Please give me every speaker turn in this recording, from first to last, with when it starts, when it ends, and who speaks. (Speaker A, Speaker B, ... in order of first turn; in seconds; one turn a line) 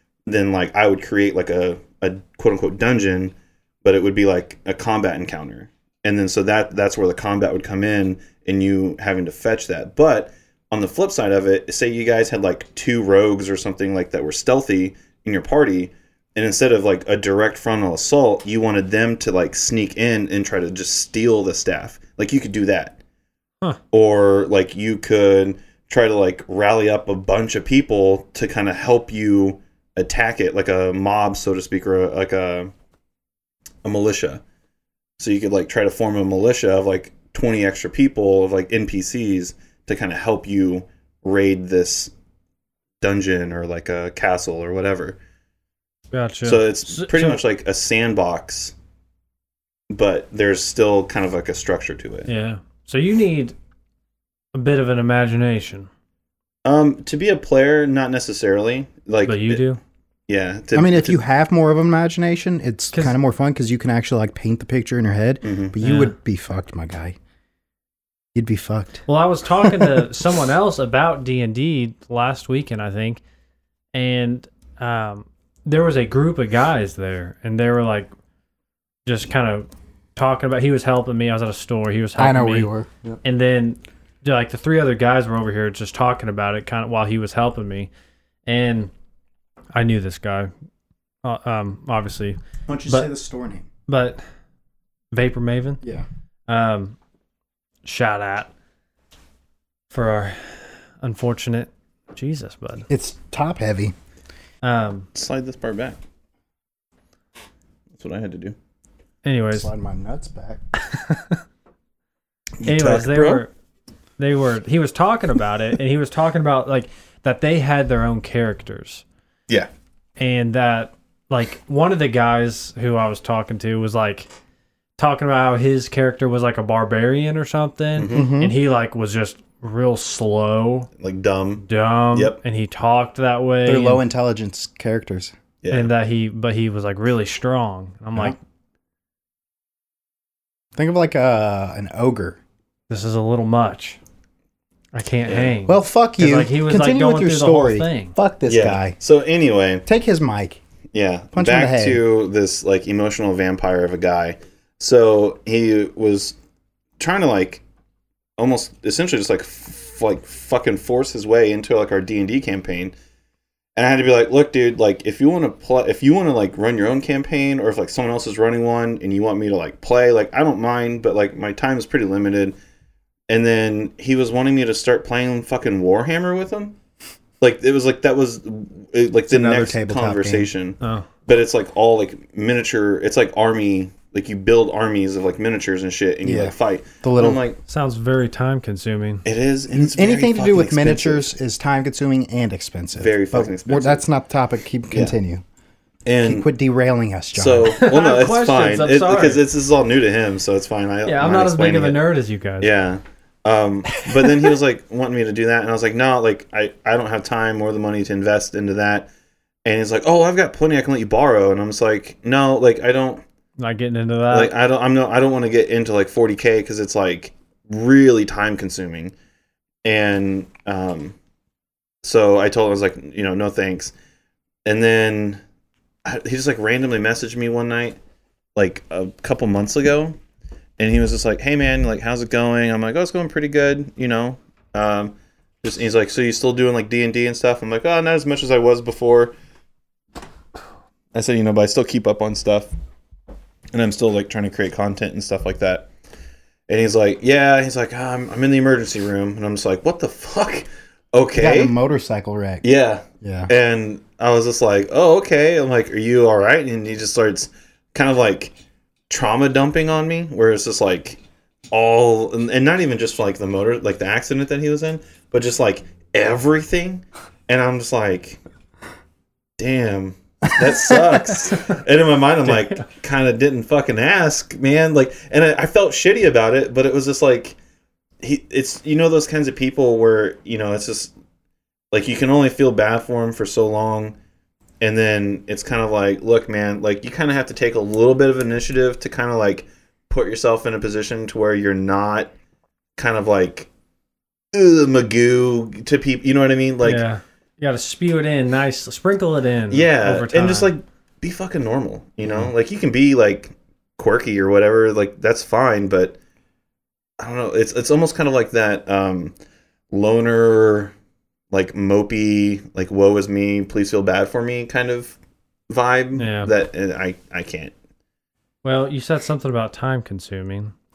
Speaker A: 0.3-23.0
Speaker A: 23.9-32.7
Speaker A: 33.8-34.4
Speaker A: 35.2-42.1
Speaker A: 43.0-45.2
Speaker B: 46.1-47.4
Speaker A: 46.4-48.8
Speaker A: 49.9-52.3
Speaker B: 52.3-53.5
Speaker B: 54.5-55.9
Speaker A: 56.6-59.6
Speaker B: 59.3-59.8
Speaker A: 60.3-61.2
Speaker C: 60.7-67.2
Speaker A: 65.4-65.8
Speaker B: 65.8-66.2
Speaker C: 68.3-69.0
Speaker B: 69.1-73.2
Speaker C: 69.6-70.1
Speaker B: 73.9-78.1
Speaker B: 79.1-82.7
Speaker C: 82.2-83.2
Speaker B: 83.2-87.9
Speaker B: 88.5-88.9
Speaker B: 89.7-90.5
Speaker B: 91.2-93.1
Speaker C: 92.7-93.7
Speaker B: 93.9-94.2
Speaker B: 95.1-95.8
Speaker B: 96.5-97.0
Speaker B: 97.8-98.5
Speaker B: 99.9-102.9
Speaker C: 102.9-104.0
Speaker B: 104.6-105.1
Speaker A: 105.2-106.0
Speaker A: 108.0-108.5
Speaker B: 109.2-109.7
Speaker C: 109.5-110.6
Speaker B: 110.8-111.4
Speaker A: 112.6-113.4
Speaker B: 112.6-113.5
Speaker B: 114.2-119.0
Speaker B: 120.2-124.3
Speaker B: 125.0-130.9
Speaker A: 128.0-128.2
Speaker C: 128.1-128.6
Speaker A: 131.0-132.4
Speaker B: 131.7-134.0
Speaker C: 133.7-135.3
Speaker A: 135.6-135.9
Speaker B: 135.7-138.4
Speaker C: 140.8-142.4
Speaker B: 142.9-144.0
Speaker B: 144.9-148.2
Speaker A: 145.3-145.5
Speaker C: 145.7-149.0
Speaker A: 148.5-149.8
Speaker C: 149.9-150.6
Speaker A: 150.9-156.4
Speaker C: 151.3-152.0
Speaker A: 157.0-157.6
Speaker A: 158.4-162.9
Speaker A: 163.8-172.6
Speaker A: 173.3-176.8
Speaker A: 177.4-187.6
Speaker C: 179.3-180.5
Speaker B: 180.8-181.1
Speaker C: 186.2-187.4
Speaker B: 187.7-189.2
Speaker A: 189.2-191.3
Speaker C: 189.7-195.4
Speaker A: 193.0-194.0
Speaker A: 194.9-195.2
Speaker A: 196.1-196.5
Speaker C: 196.2-197.7
Speaker A: 197.3-202.0
Speaker B: 197.7-199.4
Speaker B: 201.1-202.7
Speaker A: 202.6-209.1
Speaker A: 209.7-213.2
Speaker B: 213.6-214.5
Speaker A: 214.3-219.2
Speaker A: 219.8-221.2
Speaker A: 222.0-223.9
Speaker A: 224.7-225.4
Speaker A: 226.1-228.0
Speaker A: 228.6-230.2
Speaker A: 230.8-239.3
Speaker A: 241.1-242.7
Speaker A: 243.7-245.9
Speaker A: 246.7-251.7
Speaker C: 251.4-252.6
Speaker A: 252.6-258.5
Speaker C: 253.2-253.5
Speaker A: 259.1-261.2
Speaker A: 261.7-268.4
Speaker A: 269.6-277.6
Speaker B: 272.4-272.8
Speaker A: 278.2-281.1
Speaker A: 281.9-284.2
Speaker A: 284.8-292.3
Speaker A: 293.0-293.7
Speaker A: 294.5-297.0
Speaker B: 296.8-300.7
Speaker A: 299.7-306.2
Speaker A: 307.2-309.3
Speaker A: 309.9-310.9
Speaker A: 311.5-315.2
Speaker A: 315.7-317.7
Speaker B: 316.2-316.5
Speaker B: 318.6-320.7